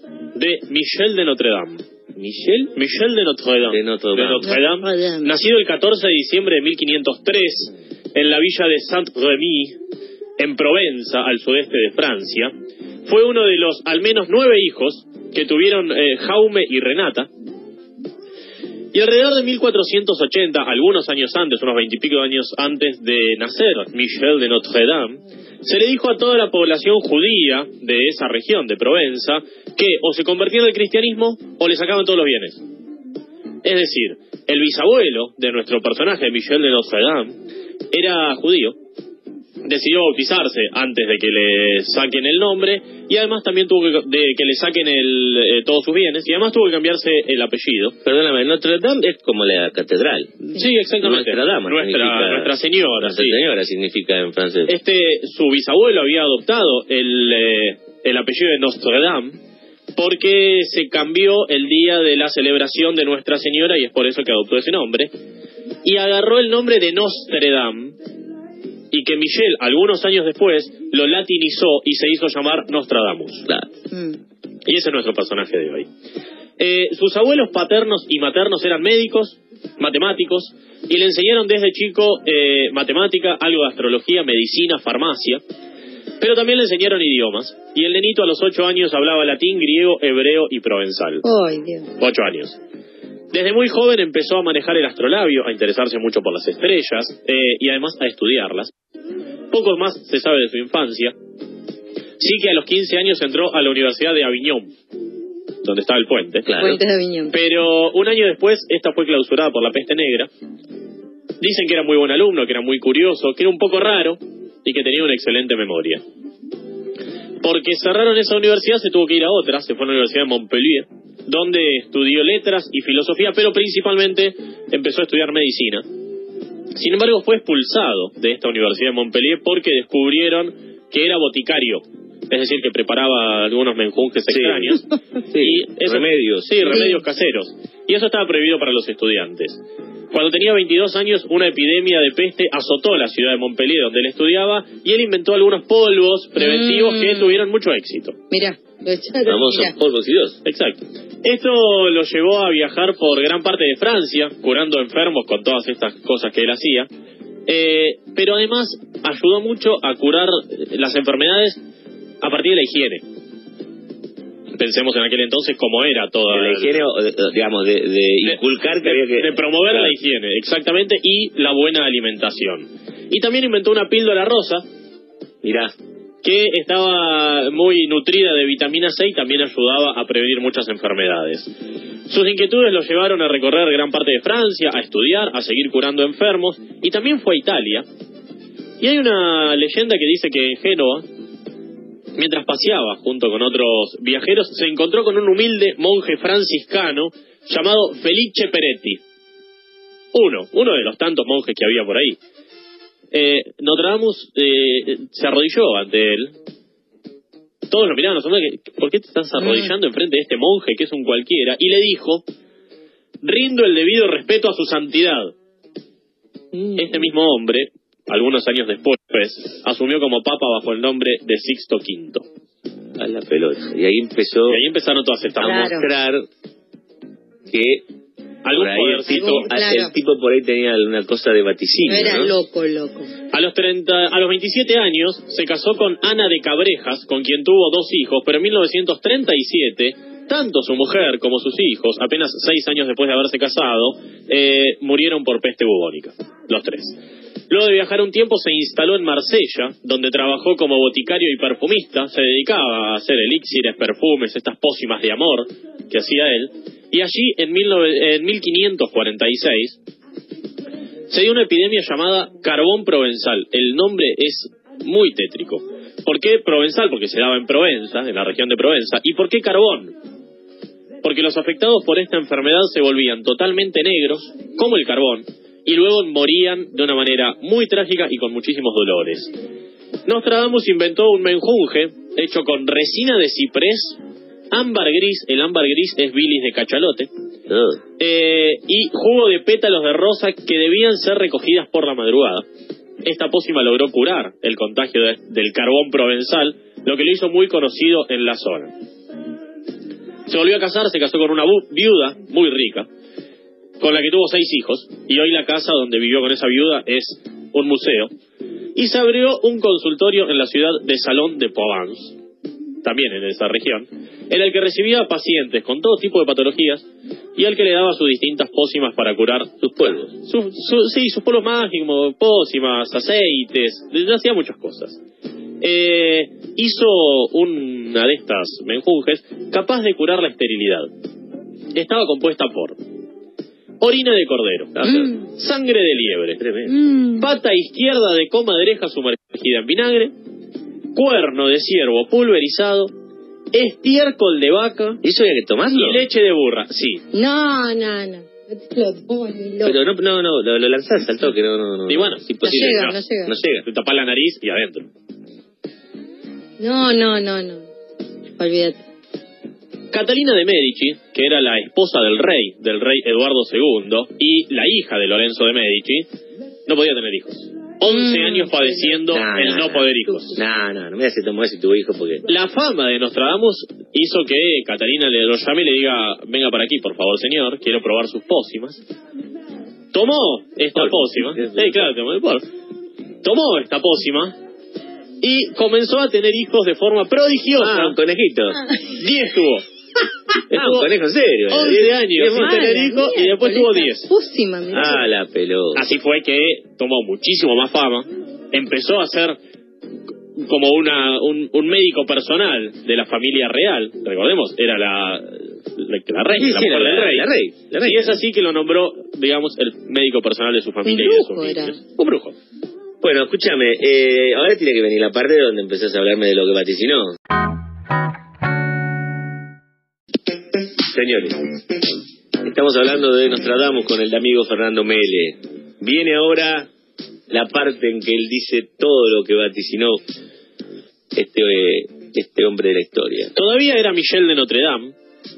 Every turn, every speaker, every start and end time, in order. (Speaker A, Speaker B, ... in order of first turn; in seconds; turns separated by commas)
Speaker A: 0.3-1.8, Speaker B: 2.1-2.7, Speaker A: 2.7-9.8, Speaker B: 3.7-4.6, Speaker C: 4.8-5.2, Speaker A: 10.4-12.5, Speaker A: 13.1-17.3, Speaker A: 18.9-32.6, Speaker A: 33.6-37.3, Speaker A: 37.9-38.8, Speaker A: 39.6-48.0, Speaker B: 48.0-50.4, Speaker A: 50.5-53.4, Speaker B: 51.0-54.7, Speaker A: 54.7-59.4, Speaker A: 60.0-65.1, Speaker A: 65.8-68.0, Speaker A: 68.9-73.5, Speaker C: 73.9-74.2, Speaker A: 74.6-75.9, Speaker A: 76.6-85.4, Speaker A: 86.2-91.2, Speaker C: 91.2-91.9, Speaker A: 92.0-92.6, Speaker A: 93.3-98.7, Speaker A: 99.5-101.1, Speaker A: 102.2-104.7, Speaker A: 105.6-106.5, Speaker B: 106.4-106.8, Speaker C: 106.6-107.3, Speaker A: 107.3-110.3, Speaker A: 111.4-116.0, Speaker A: 117.4-125.8, Speaker A: 126.7-139.6, Speaker B: 134.3-136.8, Speaker C: 136.7-137.0, Speaker A: 140.1-148.2, Speaker C: 146.4-147.4, Speaker C: 148.3-149.7, Speaker B: 149.2-150.4, Speaker A: 150.4-156.9, Speaker A: 157.5-161.6, Speaker A: 162.2-163.0, Speaker A: 164.6-166.8, Speaker B: 166.3-169.9, Speaker A: 168.2-174.6, Speaker B: 175.4-175.7, Speaker A: 176.2-181.5, Speaker A: 182.1-187.8, Speaker A: 188.8-191.0, Speaker A: 192.2-199.0, Speaker A: 200.1-202.2, Speaker A: 203.1-206.3, Speaker A: 207.7-212.2, Speaker C: 209.4-209.7, Speaker A: 213.2-215.3, Speaker B: 216.5-217.1, Speaker A: 216.8-222.2, Speaker B: 223.0-224.6, Speaker A: 224.5-225.8, Speaker B: 225.4-226.2, Speaker C: 225.4-225.9, Speaker B: 227.5-227.8, Speaker A: 228.4-229.5, Speaker B: 228.5-232.3, Speaker C: 229.1-229.9, Speaker C: 231.8-233.1, Speaker A: 233.3-247.0, Speaker A: 247.5-259.8, Speaker A: 261.1-269.9, Speaker A: 271.0-279.3, Speaker A: 280.1-284.0, Speaker A: 284.5-287.1, Speaker B: 287.5-287.8, Speaker A: 288.0-292.4, Speaker A: 293.0-298.7, Speaker A: 300.3-302.9, Speaker A: 303.8-308.1, Speaker A: 308.7-312.1, Speaker A: 312.8-325.0, Speaker B: 319.6-320.1, Speaker A: 325.6-330.9, Speaker A: 331.7-332.8, Speaker A: 333.8-336.4, Speaker B: 334.8-335.1, Speaker B: 336.4-336.8, Speaker C: 336.7-337.2, Speaker A: 337.1-340.1, Speaker A: 340.9-342.9, Speaker A: 343.5-345.0, Speaker B: 345.0-346.0, Speaker A: 345.7-347.0, Speaker C: 347.1-349.8, Speaker B: 349.6-353.6, Speaker A: 351.9-353.0, Speaker C: 352.4-353.4, Speaker A: 353.6-354.9, Speaker C: 356.6-357.6, Speaker C: 358.4-358.8, Speaker A: 359.9-366.1, Speaker A: 366.7-370.4, Speaker C: 367.9-368.7, Speaker B: 369.1-372.2, Speaker A: 372.3-378.8, Speaker A: 379.9-382.4, Speaker B: 380.8-381.9, Speaker A: 383.2-384.4, Speaker A: 385.2-387.9, Speaker B: 387.6-388.6, Speaker A: 388.9-389.6, Speaker A: 390.5-390.9, Speaker B: 390.5-392.8, Speaker A: 391.5-394.1, Speaker C: 392.3-395.1, Speaker B: 394.7-395.9, Speaker A: 395.7-399.4, Speaker A: 400.4-407.3, Speaker B: 406.3-408.2, Speaker A: 407.8-412.4, Speaker C: 410.8-411.8, Speaker B: 413.0-417.1, Speaker B: 420.9-421.5, Speaker B: 422.4-426.7, Speaker B: 427.3-430.0, Speaker B: 431.1-433.3, Speaker A: 433.3-434.9